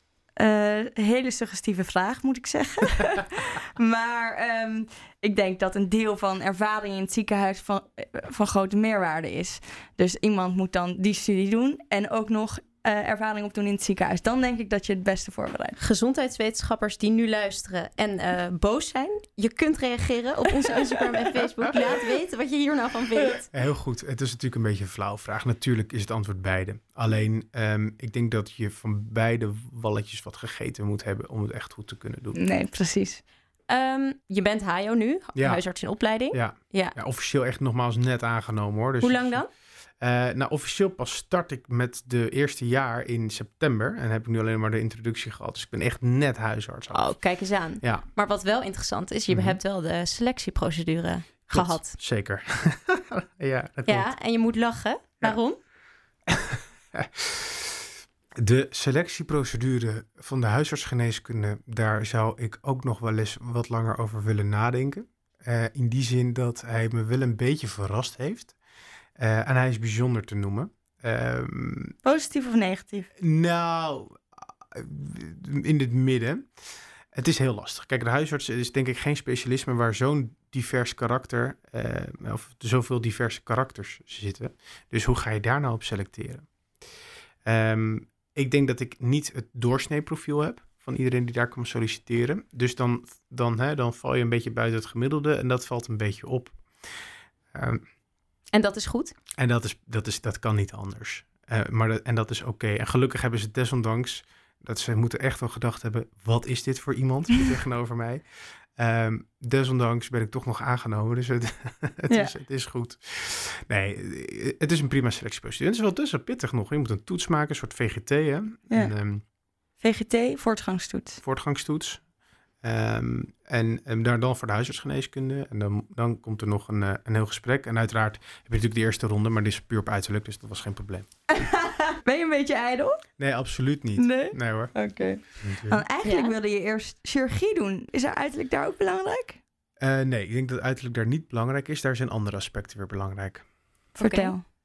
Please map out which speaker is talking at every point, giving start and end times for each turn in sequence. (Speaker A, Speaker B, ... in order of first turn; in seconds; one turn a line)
Speaker A: 0.4-15.8
Speaker B: 15.8-23.5
Speaker C: 23.5-32.4
Speaker A: 32.4-33.2
Speaker B: 33.7-37.0
Speaker C: 35.4-35.6
Speaker C: 36.3-39.4
Speaker B: 39.0-39.5
Speaker C: 40.0-47.1
Speaker B: 46.9-52.0
Speaker C: 47.8-48.1
Speaker C: 49.3-49.6
Speaker C: 51.5-54.1
Speaker B: 53.9-55.6
Speaker C: 56.3-68.5
Speaker C: 69.2-72.0
Speaker A: 72.0-73.1
Speaker C: 73.2-74.2
Speaker C: 74.7-76.5
Speaker C: 77.1-86.5
Speaker C: 87.5-96.6
Speaker C: 97.5-97.8
Speaker B: 98.5-99.1
Speaker C: 99.4-108.2
Speaker C: 108.8-119.2
Speaker A: 112.1-112.3
Speaker A: 119.8-121.2
Speaker C: 121.2-122.0
Speaker C: 122.6-131.1
Speaker A: 131.4-133.0
Speaker C: 133.2-134.8
Speaker A: 134.0-139.4
Speaker C: 135.3-135.8
Speaker B: 136.0-136.3
Speaker C: 139.8-143.4
Speaker A: 143.9-144.4
Speaker B: 144.0-144.3